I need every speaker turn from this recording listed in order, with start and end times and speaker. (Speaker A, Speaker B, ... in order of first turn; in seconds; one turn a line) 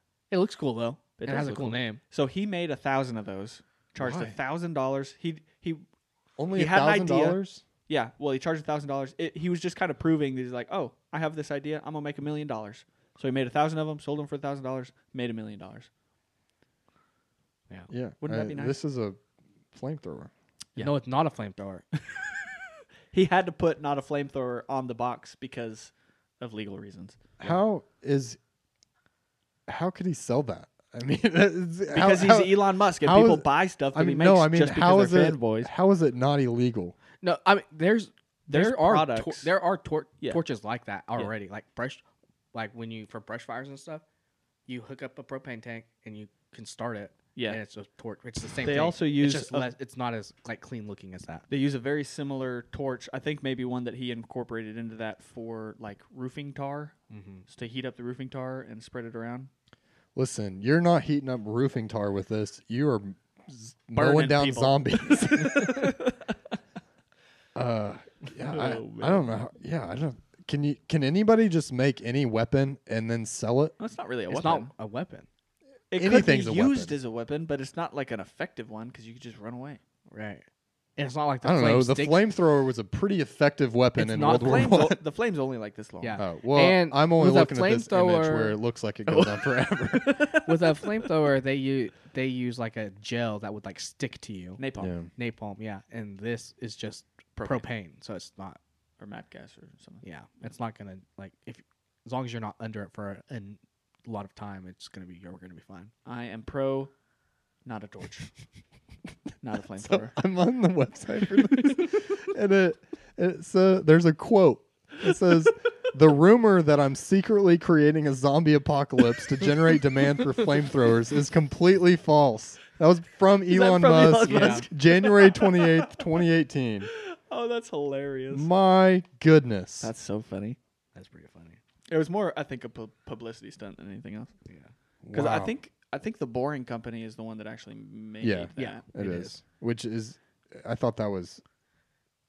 Speaker A: 0.3-2.0
Speaker B: 1.2-5.8
Speaker C: 4.0-4.4
Speaker C: 6.4-7.6
Speaker B: 6.5-15.9
Speaker C: 17.9-19.2
Speaker B: 18.2-18.8
Speaker C: 19.7-20.3
Speaker A: 20.8-21.9
Speaker B: 23.1-27.5
Speaker C: 27.4-28.4
Speaker C: 29.7-37.0
Speaker B: 31.9-35.7
Speaker A: 37.2-42.0
Speaker B: 38.5-39.5
Speaker A: 42.5-44.0
Speaker A: 44.7-51.5
Speaker B: 48.6-49.7
Speaker B: 51.5-57.0
Speaker A: 57.1-57.5
Speaker B: 57.5-59.5
Speaker C: 60.1-65.9
Speaker B: 64.0-66.3
Speaker C: 67.5-73.8
Speaker B: 68.5-69.3
Speaker B: 73.8-74.7
Speaker A: 74.3-75.3
Speaker B: 75.9-79.8
Speaker C: 76.0-76.9
Speaker A: 80.1-80.4
Speaker A: 81.0-82.2
Speaker C: 81.4-85.0
Speaker A: 84.0-84.8
Speaker B: 84.3-86.2
Speaker A: 86.0-88.6
Speaker C: 86.2-90.3
Speaker B: 89.1-90.9
Speaker A: 90.4-94.6
Speaker B: 94.6-94.9
Speaker C: 94.8-95.1
Speaker A: 95.2-98.6
Speaker B: 97.4-97.7
Speaker B: 99.0-100.0
Speaker A: 100.0-105.9
Speaker B: 106.0-106.9
Speaker B: 107.7-108.3
Speaker B: 109.4-110.2
Speaker C: 109.8-126.9
Speaker B: 123.5-126.0
Speaker A: 124.3-124.7
Speaker B: 126.9-128.5
Speaker C: 128.3-129.9
Speaker B: 129.8-130.6
Speaker A: 130.9-131.6
Speaker B: 131.9-134.3
Speaker C: 135.0-135.6
Speaker B: 135.1-138.8
Speaker C: 138.2-141.4
Speaker A: 138.6-139.4